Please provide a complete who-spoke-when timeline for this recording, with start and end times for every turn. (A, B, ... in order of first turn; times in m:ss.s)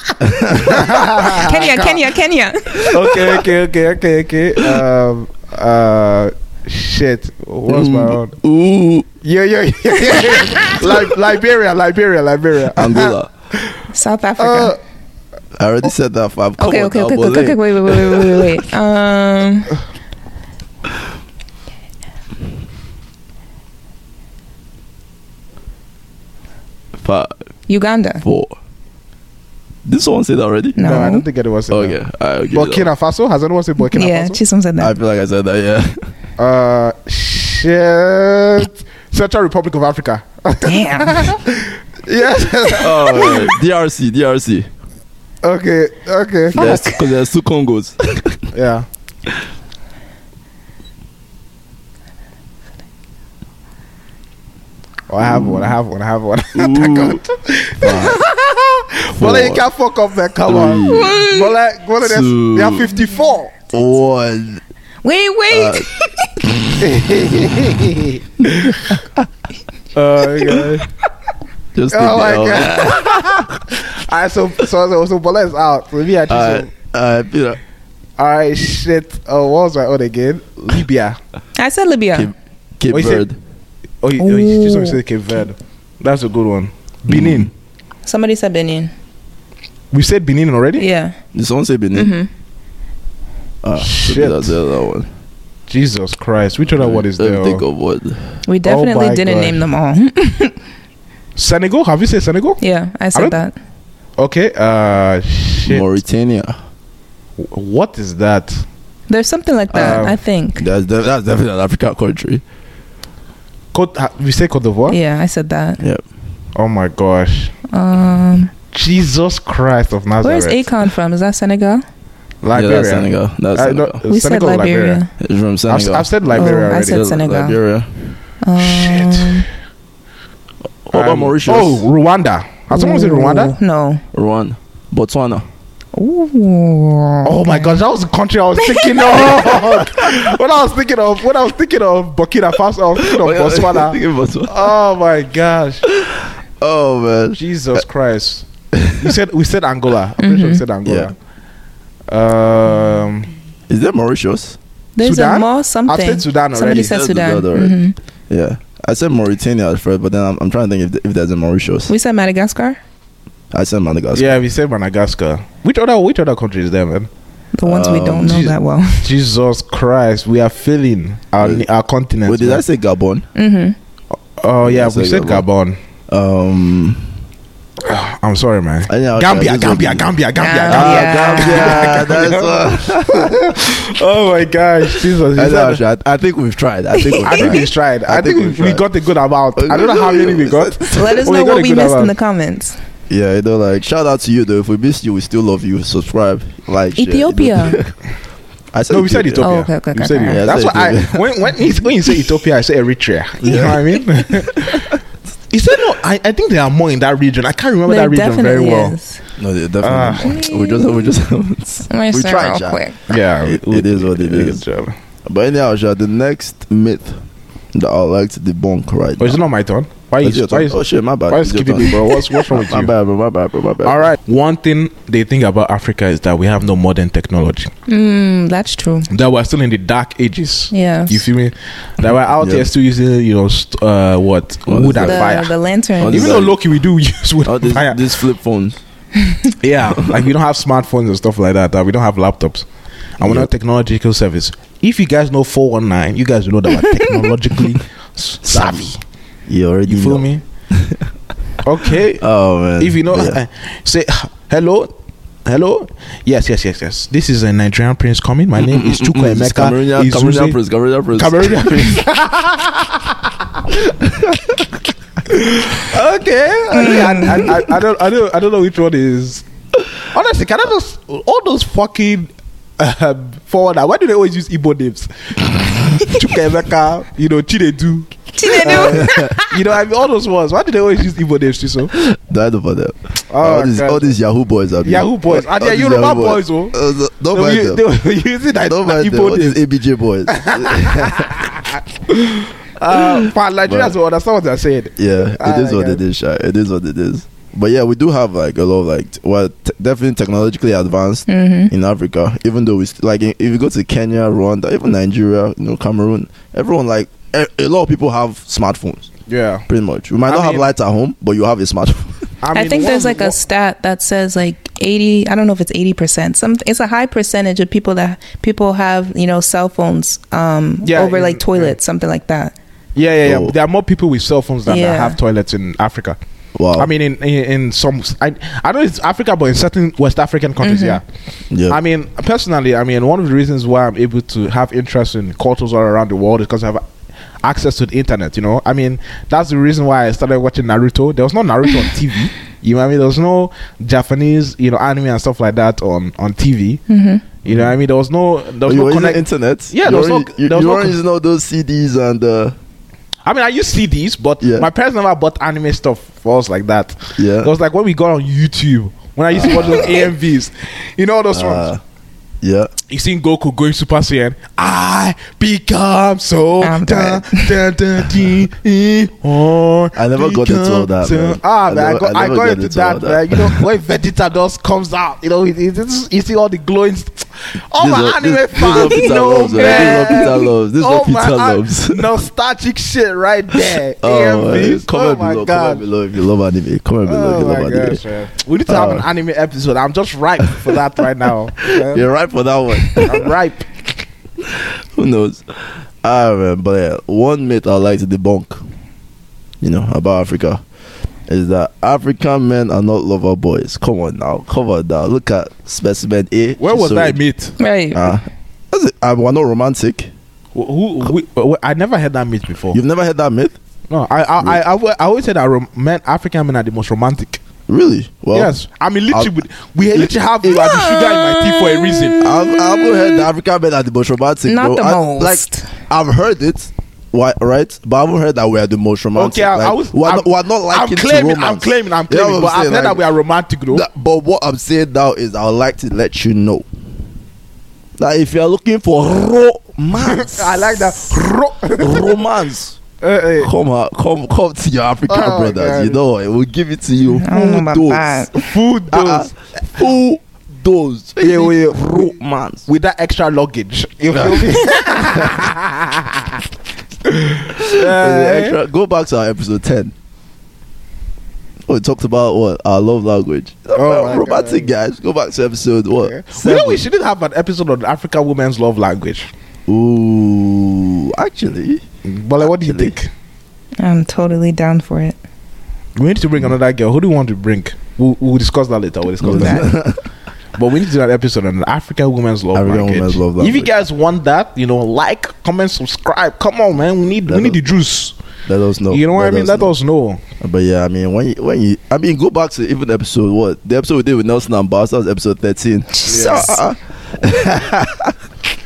0:00.2-0:01.2 A
0:00.7-0:02.0 B
0:01.0-0:03.0 C
0:02.8-0:03.4 A
0:02.9-0:08.4 B
0:07.7-0:09.1 A
0:09.2-0:13.2 B
0:12.7-0:13.3 A
0:13.9-0:14.8 C
0:14.4-0:14.8 B
0:15.6-0:18.5 A
0:16.6-0:19.8 C
0:27.0-0:27.4 A
0:27.7-0:28.2 C
0:28.2-0:28.6 A
0:29.8-0:30.9 A
0:30.8-0:31.2 C
0:30.8-0:32.0 B
0:31.7-0:32.9 A
0:32.5-0:34.4 B
0:33.8-0:34.9 C
0:34.8-0:36.0 A
0:36.4-0:43.6 B
0:40.6-0:41.3 C
0:42.8-0:44.7 A
0:45.4-0:47.0 B
0:46.5-0:48.5 A
0:46.6-0:47.0 C
0:48.5-0:48.9 B
0:55.1-1:03.5 B
0:55.2-0:55.8 A
0:56.5-0:57.2 A
0:57.8-0:58.2 A
0:59.1-0:59.6 A
1:00.4-1:01.2 A
1:00.9-1:01.5 C
1:02.0-1:02.9 A
1:03.7-1:04.6 A
1:05.0-1:06.3 C
1:05.5-1:05.9 A
1:06.4-1:06.7 A
1:06.8-1:09.0 B
1:09.9-1:10.9 B
1:11.7-1:13.6 A
1:11.9-1:16.7 B
1:16.3-1:17.6 A
1:18.2-1:21.2 B
1:21.6-1:22.3 C
1:22.1-1:23.4 A
1:22.9-1:23.3 B
1:24.0-1:27.5 B
1:24.2-1:25.0 C
1:27.1-1:27.5 A
1:28.1-1:28.9 C
1:29.9-1:30.8 B
1:30.8-1:31.2 C
1:31.3-1:32.1 A
1:31.9-1:32.3 C
1:33.6-1:35.1 A
1:33.8-1:34.6 B
1:35.7-1:37.6 B
1:36.8-1:38.2 A
1:38.5-1:40.6 C
1:38.6-1:39.6 B
1:41.4-1:42.6 B
1:42.6-1:43.6 C
1:44.2-1:45.8 B
1:45.7-1:46.6 A
1:47.4-1:48.6 B
1:49.1-1:50.6 C
1:49.7-1:50.2 B
1:49.8-1:50.0 A
1:50.6-1:52.4 A
1:53.7-1:55.0 B
1:54.9-1:55.8 C
1:56.6-1:57.5 B
1:57.7-1:58.5 C
1:58.7-2:00.7 B
2:00.2-2:01.8 C
2:02.4-2:05.0 B
2:02.5-2:04.0 A
2:04.1-2:05.1 C
2:05.2-2:07.9 A
2:05.7-2:07.0 B
2:06.3-2:07.6 C
2:08.4-2:09.5 C
2:08.6-2:09.4 B
2:10.9-2:11.9 A
2:10.9-2:13.6 B
2:12.7-2:14.0 C
2:14.1-2:15.4 A
2:15.9-2:17.8 C
2:17.2-2:25.8 B
2:19.5-2:20.2 A
2:23.0-2:24.7 A
2:25.9-2:27.8 A
2:27.4-2:31.2 B
2:28.7-2:29.2 A
2:30.2-2:30.6 C
2:30.8-2:31.1 A
2:32.1-2:33.3 B
2:33.7-2:34.6 A
2:35.0-2:38.0 C
2:35.0-2:37.0 B
2:36.6-2:37.8 A
2:38.3-2:41.9 A
2:41.9-2:42.8 C
2:43.5-2:44.4 A
2:44.1-2:47.1 B
2:47.5-2:49.1 C
2:47.6-2:48.5 A
2:48.3-2:52.6 B
2:51.4-2:51.7 A
2:52.3-2:53.3 A
2:53.4-2:53.8 C
2:54.4-2:55.8 B
2:54.6-2:55.4 A
2:56.1-2:57.1 A
2:57.8-3:05.8 B
2:58.9-3:00.1 A
3:00.4-3:02.0 C
3:00.7-3:03.7 A
3:04.8-3:08.8 A
3:07.0-3:07.6 C
3:07.2-3:12.1 B
3:09.6-3:11.2 A
3:10.9-3:12.8 C
3:13.1-3:18.0 A
3:17.0-3:17.8 C
3:18.7-3:19.6 A
3:18.9-3:25.0 B
3:19.4-3:20.4 C
3:20.3-3:21.6 A
3:23.4-3:25.0 A
3:25.5-3:29.0 B
3:27.9-3:29.2 C
3:29.4-3:34.6 A
3:29.8-3:30.3 B
3:30.2-3:31.1 C
3:31.9-3:33.0 C
3:33.1-3:35.0 B
3:35.3-3:37.2 A
3:37.7-3:39.4 A
3:39.2-3:42.9 B
3:40.2-3:44.1 A
3:43.8-3:47.7 B
3:47.9-3:49.1 C
3:49.1-3:58.2 B
3:50.7-3:51.2 C
3:52.4-3:52.7 A
3:54.7-3:55.4 A
3:55.0-3:56.4 C
3:56.0-3:56.6 A
3:57.4-3:58.8 A
3:59.6-4:02.7 B
4:03.2-4:09.0 B
4:03.2-4:03.5 A
4:08.5-4:08.9 A
4:09.5-4:11.1 A
4:09.9-4:10.4 B
4:11.6-4:12.2 B
4:12.2-4:13.4 A
4:12.8-4:14.9 B
4:15.5-4:20.6 B
4:18.6-4:22.0 A
4:21.1-4:23.2 B
4:24.0-4:24.6 A
4:25.3-4:29.4 B
4:26.7-4:27.6 C
4:30.1-4:41.9 B
4:38.4-4:39.5 C
4:38.9-4:39.4 A
4:41.9-4:47.8 A
4:43.3-4:44.2 B
4:44.8-4:46.8 B
4:47.3-4:49.6 B
4:48.7-4:51.5 A
4:50.3-4:56.0 B
4:52.9-4:54.0 A
4:55.0-5:09.1 A
5:01.3-5:01.7 C
5:09.3-5:09.6 B
5:09.7-5:12.3 A
5:10.3-5:10.7 B
5:12.4-5:13.4 B
5:12.5-5:22.6 C
5:20.8-5:21.8 B
5:23.0-5:26.2 B
5:23.2-5:23.5 A
5:24.7-5:25.2 C
5:26.6-5:26.9 A
5:26.8-5:31.0 B
5:30.6-5:31.0 C
5:31.5-5:31.8 A
5:31.7-5:36.8 B
5:37.4-5:46.8 B
5:46.9-5:47.2 C
5:47.4-5:51.0 B
5:48.6-5:52.6 A
5:53.2-6:01.7 B
5:54.4-5:54.7 A
5:57.2-5:57.5 A
5:59.3-6:00.1 A
6:01.3-6:01.8 A
6:02.4-6:02.7 A
6:02.9-6:25.8 B
6:06.6-6:07.6 C
6:09.9-6:13.7 A
6:17.8-6:22.1 A
6:18.8-6:20.3 C
6:24.0-6:28.0 A
6:27.1-6:32.0 B
6:28.7-6:29.1 A
6:31.6-6:33.3 A
6:32.9-6:33.7 B
6:34.4-6:38.6 A
6:39.6-6:40.6 A
6:41.3-6:47.2 A
6:46.6-6:47.6 B
6:47.6-6:48.1 C
6:47.9-6:50.1 A
6:50.6-6:52.8 B
6:52.7-6:53.6 A
6:53.9-6:57.4 B
6:57.7-6:58.5 A
6:58.3-7:02.2 B
6:59.9-7:00.6 A
7:00.5-7:03.3 C
7:02.2-7:13.0 A
7:04.5-7:05.7 C
7:09.2-7:13.9 B
7:13.7-7:16.6 A
7:18.0-7:21.0 A
7:20.0-7:22.2 B
7:21.8-7:22.8 A
7:23.0-7:23.5 B
7:23.4-7:28.2 A
7:25.1-7:26.0 B
7:27.2-7:28.4 C
7:28.3-7:29.3 B
7:28.9-7:32.7 A
7:31.2-7:32.2 B
7:32.7-7:36.4 B
7:34.2-7:35.3 A
7:37.1-7:38.6 B
7:37.5-7:39.9 A
7:41.7-7:46.9 A
7:43.8-7:44.7 B
7:46.0-7:49.3 B
7:49.7-7:51.8 A
7:52.0-7:53.1 B
7:52.4-7:52.9 A
7:53.8-7:55.2 C
7:56.0-7:59.7 B
7:59.2-8:00.0 A
7:59.3-7:59.6 C
8:00.6-8:08.2 B
8:02.6-8:03.7 A
8:07.3-8:07.6 A
8:08.5-8:09.8 A
8:08.9-8:10.2 B
8:10.4-8:18.2 A
8:15.9-8:16.6 C
8:16.1-8:16.5 B